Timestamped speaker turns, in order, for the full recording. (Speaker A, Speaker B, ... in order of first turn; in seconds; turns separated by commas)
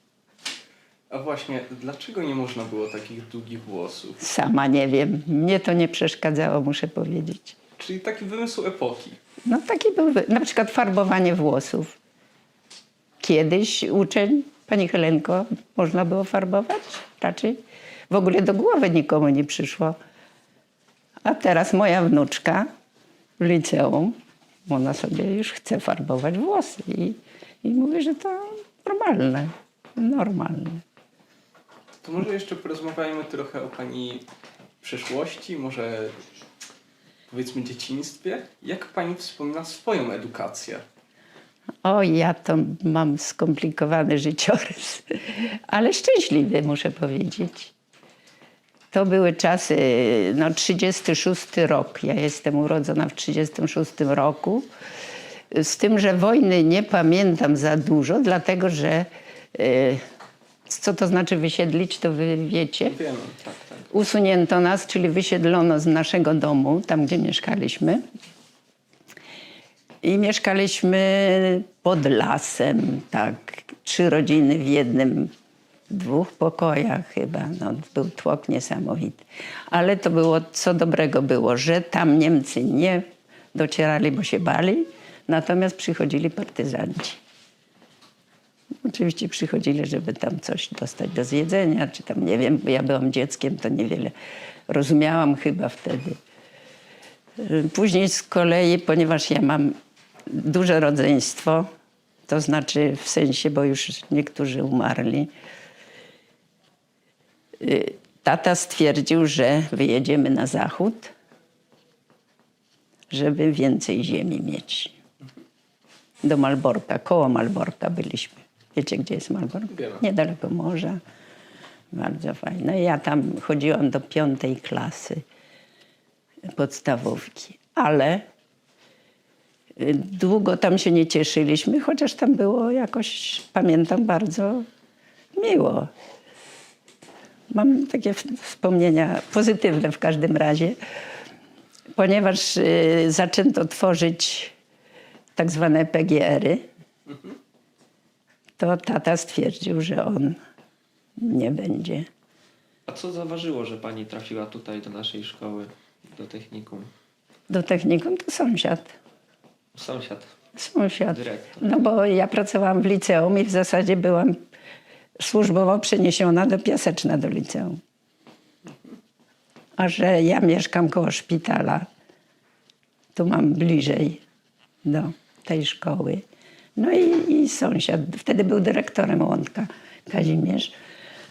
Speaker A: 1.1-4.2, Speaker B: 4.2-7.6, Speaker A: 7.8-9.2, Speaker B: 9.4-12.0, Speaker B: 13.2-20.0, Speaker B: 21.2-22.7, Speaker B: 23.4-30.8, Speaker A: 32.0-34.2, Speaker A: 34.8-36.1, Speaker A: 37.3-40.8, Speaker B: 41.8-47.7, Speaker B: 48.9-54.7, Speaker B: 55.5-60.0, Speaker B: 60.7-62.9, Speaker A: 62.9-63.4, Speaker C: 63.4-63.9, Speaker B: 63.9-68.0, Speaker B: 70.0-75.3, Speaker B: 75.9-87.2, Speaker B: 88.8-94.1, Speaker B: 94.7-96.2, Speaker B: 97.4-99.8, Speaker B: 100.3-101.7, Speaker B: 102.3-105.3, Speaker B: 107.6-111.1, Speaker B: 113.1-114.9, Speaker B: 116.2-121.0, Speaker A: 119.7-120.0, Speaker B: 121.9-125.2, Speaker B: 126.5-128.2, Speaker B: 129.8-134.7, Speaker B: 135.3-135.9, Speaker B: 137.5-140.8, Speaker B: 141.9-144.5, Speaker B: 145.3-146.6, Speaker A: 147.1-147.3, Speaker B: 148.6-150.4, Speaker B: 151.2-152.1, Speaker C: 152.9-156.9, Speaker B: 157.5-158.9, Speaker C: 159.7-160.3, Speaker B: 160.5-164.4, Speaker C: 161.1-161.7, Speaker B: 165.2-167.8, Speaker B: 169.8-171.9, Speaker B: 173.1-174.2, Speaker B: 174.8-176.2, Speaker B: 176.8-180.7